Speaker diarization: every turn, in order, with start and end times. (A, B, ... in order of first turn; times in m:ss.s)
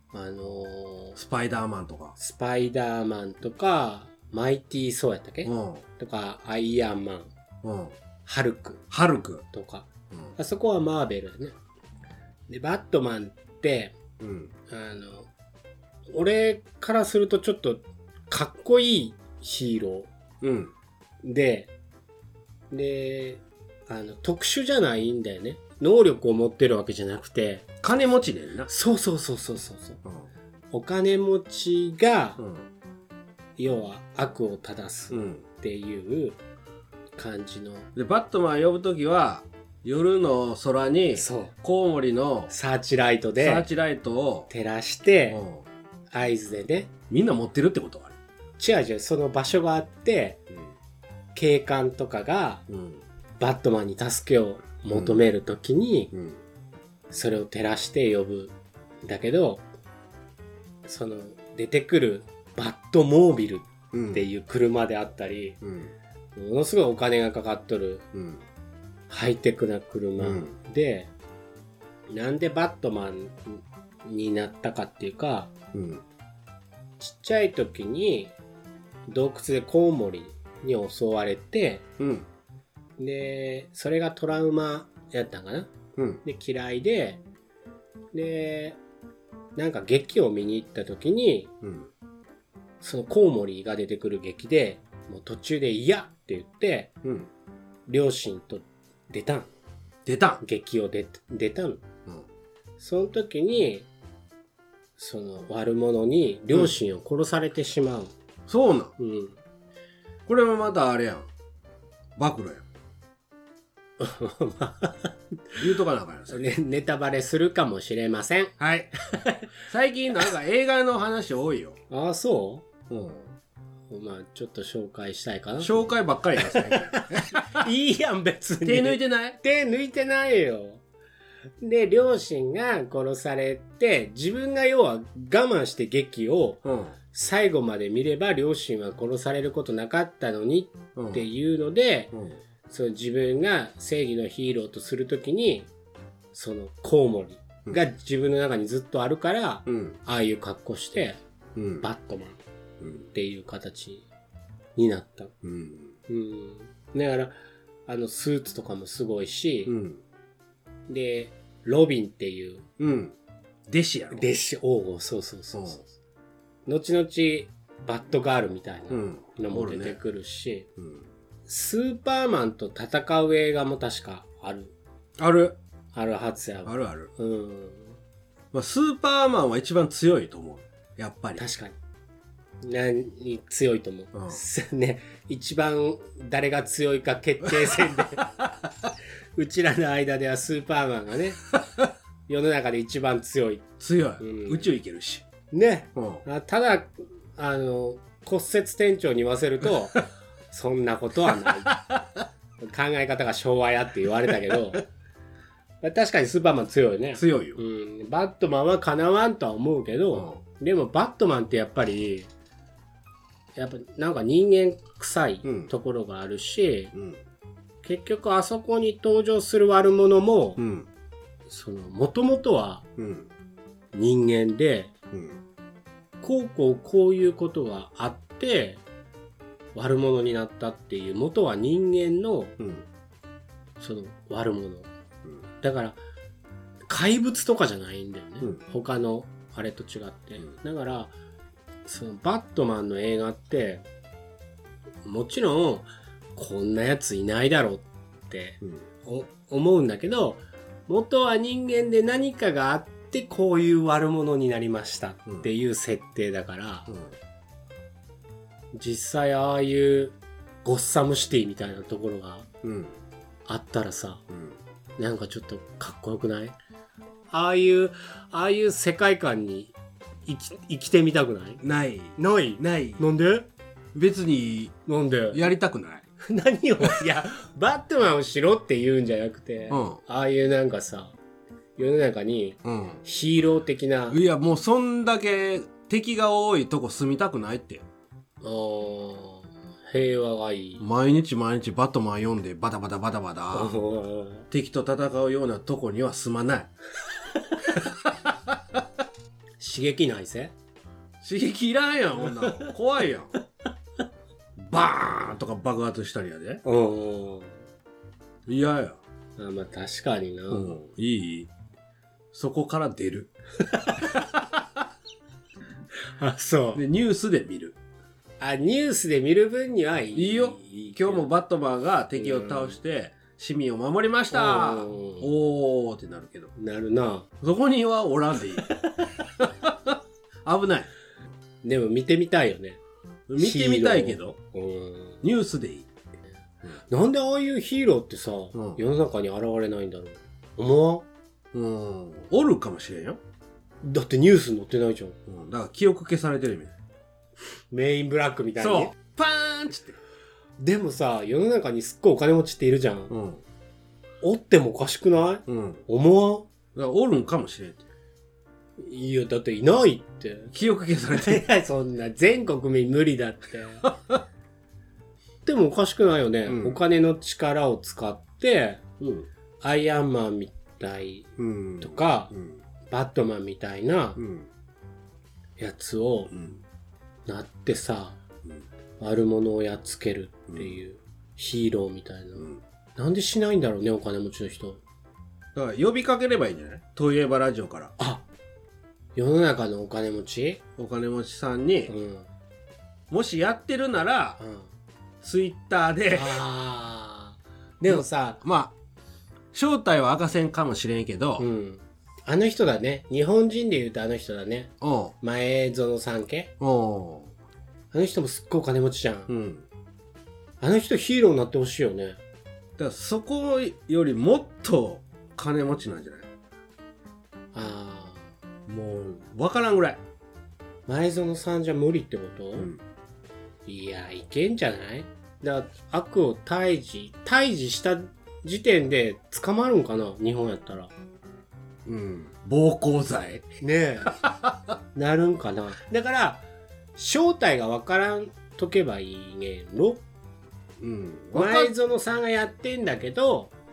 0:00.1-0:01.2 A
0:01.2-0:02.2 B
0:02.2-0:07.3 A
0:05.4-0:05.8 B
0:07.6-0:08.0 B
0:08.3-0:08.8 A
0:08.9-0:09.4 B
0:09.5-0:11.6 A
0:12.5-0:14.0 A
0:14.2-0:14.5 B
0:14.7-0:15.3 A
0:16.1-0:20.1 A
0:20.4-0:20.7 B
0:21.2-0:21.7 A
0:22.7-0:27.7 A
0:27.8-0:28.7 B
0:28.7-0:30.0 A
0:30.7-0:32.4 A
0:32.4-0:32.6 B
0:33.6-0:36.4 A
0:35.1-0:35.4 B
0:37.2-0:37.9 A
0:38.0-0:42.5 B
0:41.2-0:41.6 A
0:42.5-0:43.7 A
0:43.4-0:44.5 B
0:44.5-0:45.4 A
0:45.3-0:45.6 B
0:46.1-0:46.9 A
0:47.1-0:48.2 B
0:48.6-0:50.4 A
0:51.4-0:52.7 A
0:52.7-0:53.0 B
0:53.4-0:56.1 A
0:54.9-0:55.2 B
0:56.1-0:56.4 B
0:57.1-0:59.6 A
1:00.8-1:05.6 A
1:03.9-1:04.2 B
1:05.6-1:05.9 B
1:06.4-1:08.1 A
1:08.1-1:08.4 B
1:09.1-1:11.1 A
1:10.2-1:10.5 B
1:12.1-1:15.5 A
1:15.7-1:16.0 B
1:17.0-1:18.4 A
1:19.1-1:21.9 A
1:22.0-1:22.3 B
1:23.0-1:25.7 A
1:26.0-1:26.2 B
1:26.2-1:27.2 A
1:28.1-1:28.8 A
1:29.6-1:31.5 A
1:31.6-1:31.9 B
1:32.8-1:36.9 A
1:37.0-1:37.3 B
1:37.9-1:39.5 A
1:40.1-1:40.4 B
1:40.4-1:41.8 A
1:42.8-1:43.9 A
1:45.0-1:48.1 A
1:48.5-1:48.9 B
1:49.0-1:49.4 A
1:50.3-1:51.3 B
1:52.2-1:52.6 B
1:54.0-1:55.6 A
1:55.6-1:56.4 B
1:56.3-1:58.5 A
1:58.6-1:58.9 B
1:59.1-1:59.5 A
1:59.7-2:01.8 B
2:01.9-2:02.7 A
2:02.9-2:03.3 B
2:03.9-2:05.9 A
2:05.6-2:07.4 B
2:06.4-2:10.8 A
2:08.6-2:09.4 B
2:11.6-2:22.1 A
2:16.6-2:17.0 B
2:21.0-2:21.3 B
2:22.1-2:22.4 B
2:22.7-2:25.7 A
2:26.3-2:31.2 A
2:29.7-2:30.0 B
2:31.6-2:31.8 B
2:31.8-2:32.4 A
2:32.8-2:33.1 B
2:33.1-2:34.0 A
2:34.8-2:35.3 A
2:35.4-2:36.0 B
2:36.1-2:37.3 A
2:37.9-2:39.8 A
2:39.7-2:40.0 B
2:40.9-2:42.7 A
2:42.8-2:43.2 B
2:43.7-2:44.3 B
2:44.1-2:45.9 A
2:45.5-2:45.8 B
2:46.7-2:50.7 A
2:48.9-2:50.0 B
2:50.8-2:51.0 B
2:51.5-2:54.7 A
2:55.2-2:55.6 B
2:55.9-2:58.0 A
2:56.7-2:57.1 B
2:58.5-3:01.4 B
3:01.4-3:01.8 A
3:02.6-3:08.3 A
3:04.1-3:04.4 B
3:08.2-3:08.5 B
3:09.4-3:11.4 A
3:12.3-3:13.7 A
3:13.8-3:15.2 B
3:14.2-3:14.7 A
3:15.5-3:21.8 A
3:16.0-3:16.2 B
3:21.3-3:22.0 B
3:22.6-3:24.8 A
3:25.8-3:32.3 A
3:27.2-3:27.6 B
3:30.1-3:30.4 B
3:33.6-3:36.9 A
3:35.4-3:35.7 B
3:36.9-3:37.2 B
3:37.8-3:40.6 A
3:40.6-3:40.9 B
3:41.5-3:42.8 A
3:43.0-3:43.3 B
3:43.9-3:44.9 A
3:45.1-3:45.4 B
3:46.2-3:48.8 A
3:49.8-3:52.6 A
3:52.6-3:52.9 B
3:53.8-3:54.9 A
3:55.6-3:56.0 A
3:56.9-4:01.1 A
4:01.8-4:03.8 A
4:05.0-4:16.9 A
4:16.9-4:17.2 B
4:18.7-4:22.5 A
4:22.6-4:23.0 B
4:23.5-4:24.2 A
4:24.3-4:24.6 B
4:25.0-4:26.6 A
4:27.3-4:29.8 A
4:30.3-4:31.6 A
4:31.6-4:33.0 B
4:32.2-4:33.5 A
4:33.9-4:34.8 B
4:34.9-4:35.4 A
4:35.3-4:36.0 B
4:36.2-4:41.2 A
4:39.7-4:40.0 B
4:41.8-4:44.2 A
4:42.6-4:43.0 B
4:44.1-4:47.8 B
4:48.4-4:50.8 A
4:50.8-4:53.8 B
4:53.5-4:54.5 A
4:54.5-4:56.7 B
4:58.5-4:58.8 B
4:59.6-5:00.5 A
5:01.2-5:03.3 B
5:02.4-5:02.7 A
5:04.6-5:06.6 B
5:06.6-5:07.6 A
5:08.5-5:09.0 B
5:09.4-5:10.8 A
5:10.5-5:11.5 B
5:12.3-5:13.3 B
5:14.0-5:14.4 B
5:16.1-5:16.8 A
5:16.8-5:17.8 B
5:18.4-5:21.3 A
5:20.2-5:26.5 B
5:22.2-5:22.8 A
5:24.3-5:25.3 A
5:26.6-5:27.3 A
5:27.4-5:28.7 B
5:29.4-5:30.9 B
5:31.6-5:32.8 A
5:33.3-5:34.4 B
5:33.4-5:35.2 A
5:35.2-5:35.9 B
5:36.9-5:41.1 A
5:38.5-5:38.8 B
5:41.5-5:43.2 B
5:43.8-5:45.2 A
5:45.3-5:46.7 B
5:47.7-5:48.9 A
5:48.6-5:50.0 B
5:50.6-5:53.1 A
5:53.1-5:53.4 B
5:54.2-5:56.5 A
5:55.5-5:55.8 B
5:56.8-5:57.8 B
5:58.8-6:00.5 A
6:00.5-6:01.5 B
6:01.1-6:03.9 A
6:05.4-6:08.8 A
6:06.5-6:06.8 B
6:09.0-6:09.3 B
6:09.6-6:12.3 A
6:11.4-6:12.6 B
6:12.9-6:14.2 A
6:14.2-6:14.5 B
6:15.6-6:16.3 A
6:16.3-6:16.6 B
6:17.3-6:18.2 A
6:19.0-6:24.8 A
6:20.5-6:20.8 B
6:25.6-6:27.9 B
6:28.0-6:28.3 A
6:29.2-6:30.6 A
6:30.8-6:31.9 B
6:31.9-6:32.3 A
6:33.1-6:34.4 B
6:34.4-6:34.7 A
6:35.2-6:36.4 B
6:36.1-6:38.4 A
6:37.8-6:38.7 B
6:39.5-6:41.5 B
6:41.4-6:46.5 A
6:44.8-6:45.1 B
6:46.6-6:47.3 B
6:47.9-6:49.3 A
6:49.3-6:49.7 B
6:50.6-6:52.2 A
6:52.8-6:56.3 B
6:57.5-6:58.3 A
6:58.7-7:00.0 B
7:00.9-7:02.7 A
7:02.6-7:02.8 B
7:03.7-7:10.9 A
7:11.9-7:13.5 B
7:13.6-7:14.2 A
7:14.1-7:14.6 B
7:15.0-7:16.4 A
7:17.0-7:20.0 A
7:20.8-7:21.7 B
7:21.3-7:23.5 A